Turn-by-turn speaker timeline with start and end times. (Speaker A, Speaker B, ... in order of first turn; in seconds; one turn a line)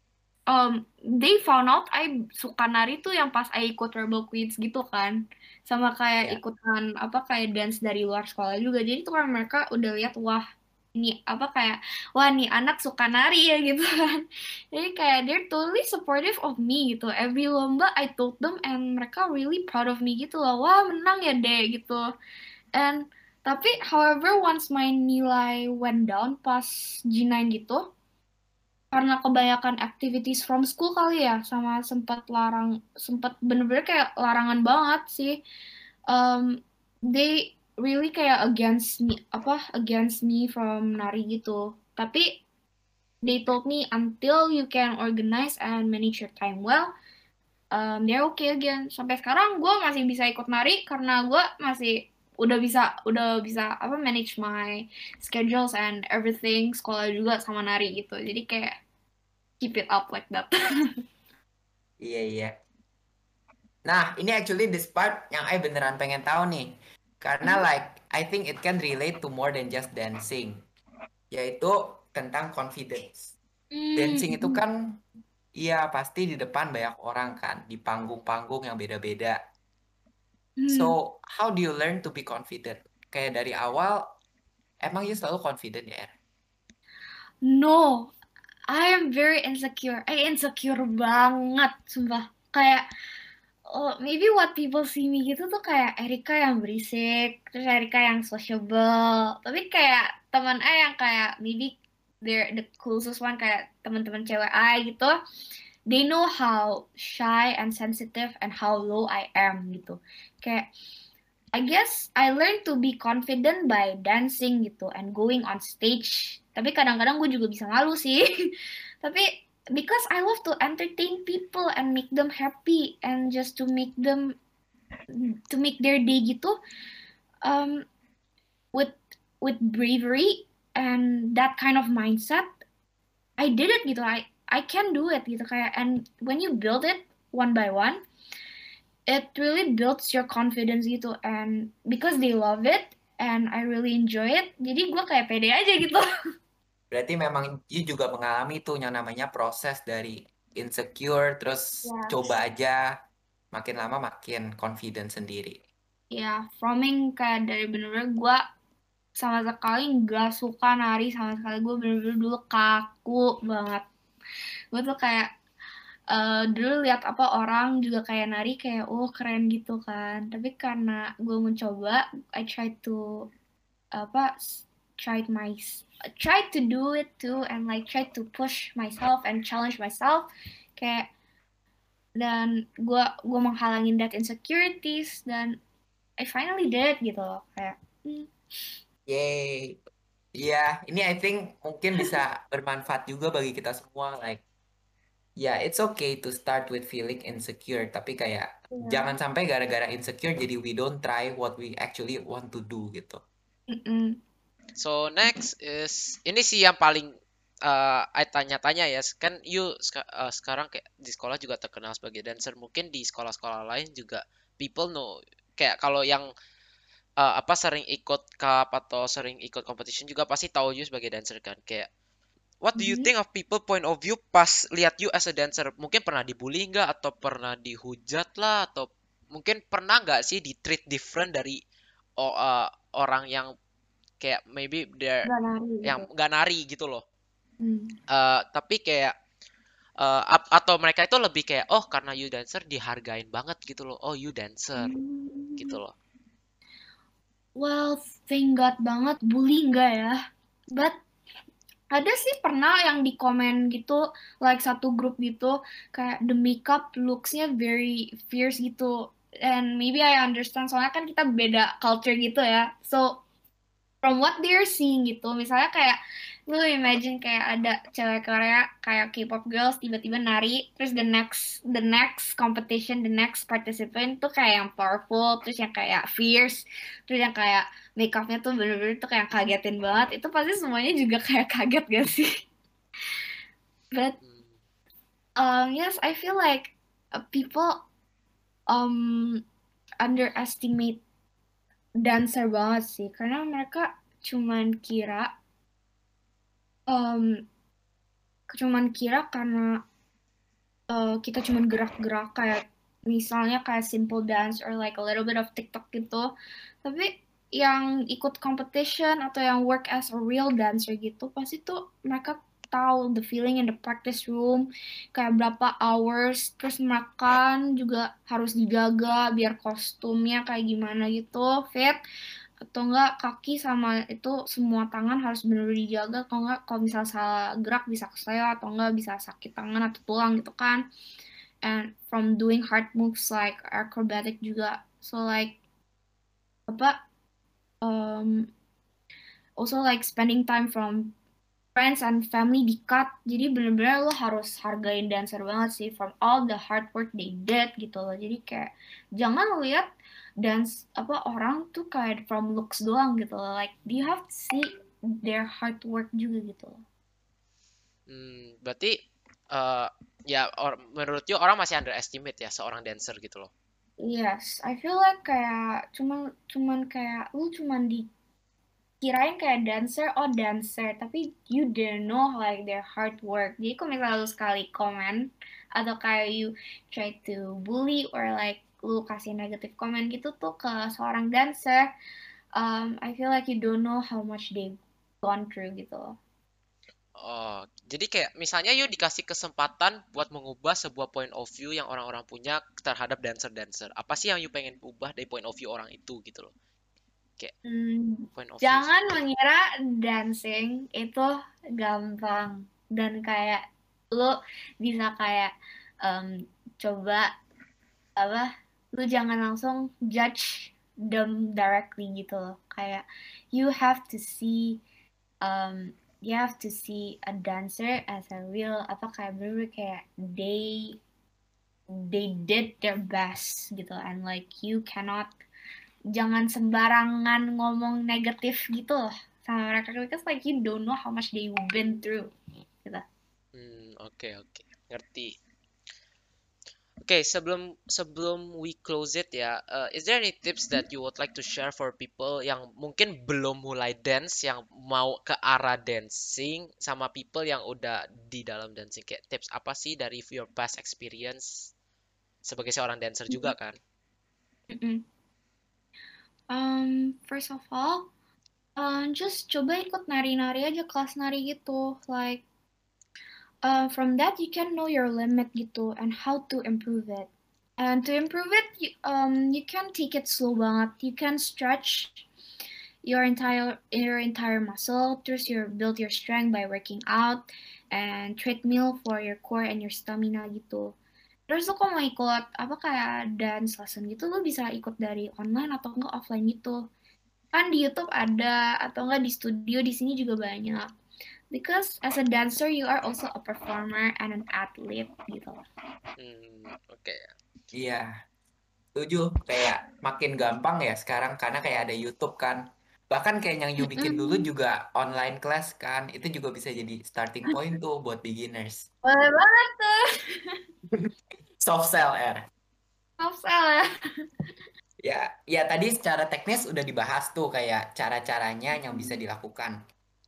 Speaker A: 0.5-22.0
Speaker A: 22.7-27.8
Speaker A: 28.9-35.4
Speaker A: 36.1-36.6
Speaker A: 37.1-42.4
Speaker A: 43.2-46.9
Speaker A: 47.7-58.8
Speaker A: 59.6-60.5
Speaker B: 62.0-62.5
Speaker B: 63.9-70.5
Speaker B: 71.3-73.3
Speaker A: 73.7-74.6
Speaker B: 74.0-74.8
Speaker B: 75.6-79.4
Speaker A: 80.6-80.9
Speaker B: 80.7-84.0
Speaker B: 84.8-86.1
Speaker A: 87.4-88.1
Speaker A: 88.7-92.8
Speaker A: 93.7-105.2
Speaker A: 105.9-110.7
Speaker A: 111.5-118.3
Speaker A: 119.0-124.3
Speaker A: 125.1-126.6
Speaker A: 127.4-127.8
Speaker A: 128.7-132.5
Speaker A: 133.4-138.0
Speaker A: 139.1-146.1
Speaker B: 146.9-152.8
Speaker A: 151.8-152.3
Speaker B: 153.5-155.6
Speaker A: 156.1-158.4
Speaker A: 159.2-163.8
Speaker A: 164.7-165.3
Speaker A: 166.1-173.3
Speaker A: 173.9-181.1
Speaker A: 182.2-185.6
Speaker A: 186.2-188.3
Speaker B: 189.1-189.8
Speaker B: 190.4-194.4
Speaker B: 195.4-203.2
Speaker A: 198.7-199.1
Speaker A: 203.7-204.2
Speaker C: 204.8-207.1
Speaker C: 207.7-216.3
Speaker C: 217.2-221.9
Speaker C: 222.6-231.6
Speaker A: 222.8-223.1
Speaker C: 232.2-233.5
Speaker C: 234.2-235.3
Speaker A: 235.2-236.1
Speaker C: 235.8-237.0
Speaker A: 237.6-237.9
Speaker C: 238.1-239.1
Speaker C: 240.0-244.9
Speaker A: 244.8-245.8
Speaker C: 245.6-245.9
Speaker A: 247.6-250.2
Speaker A: 251.9-263.2
Speaker A: 264.0-282.4
Speaker C: 284.2-284.5
Speaker A: 285.4-287.8
Speaker A: 288.7-289.4
Speaker A: 290.0-291.0
Speaker A: 292.0-295.3
Speaker A: 296.9-297.4
Speaker A: 298.5-299.8
Speaker A: 300.9-306.3
Speaker A: 306.8-322.0
Speaker A: 322.7-330.8
Speaker A: 331.6-335.6
Speaker A: 336.7-337.0
Speaker A: 337.8-338.5
Speaker A: 339.6-341.1
Speaker A: 341.7-349.9
Speaker A: 350.4-354.7
Speaker A: 355.2-356.8
Speaker C: 358.1-359.0
Speaker C: 359.5-363.5
Speaker A: 364.0-368.1
Speaker A: 369.0-381.9
Speaker A: 382.6-386.2
Speaker C: 387.2-396.5
Speaker A: 397.7-405.5
Speaker C: 398.3-398.9
Speaker A: 406.0-407.3
Speaker A: 408.2-414.8
Speaker A: 415.4-421.0
Speaker A: 421.9-425.3
Speaker A: 426.1-432.3
Speaker C: 433.5-435.3
Speaker C: 437.0-451.7
Speaker C: 452.4-453.8
Speaker A: 453.3-453.5
Speaker A: 454.7-455.0
Speaker A: 456.5-458.1
Speaker A: 458.8-462.4
Speaker A: 463.6-472.3
Speaker A: 473.0-480.9
Speaker A: 481.5-486.8
Speaker A: 487.5-490.9
Speaker A: 491.5-495.6
Speaker C: 496.2-497.3
Speaker B: 497.7-498.1
Speaker B: 498.9-508.9
Speaker A: 503.8-504.5
Speaker A: 509.0-510.0
Speaker B: 511.6-512.5
Speaker A: 513.2-513.9
Speaker B: 515.0-519.8
Speaker A: 518.8-519.2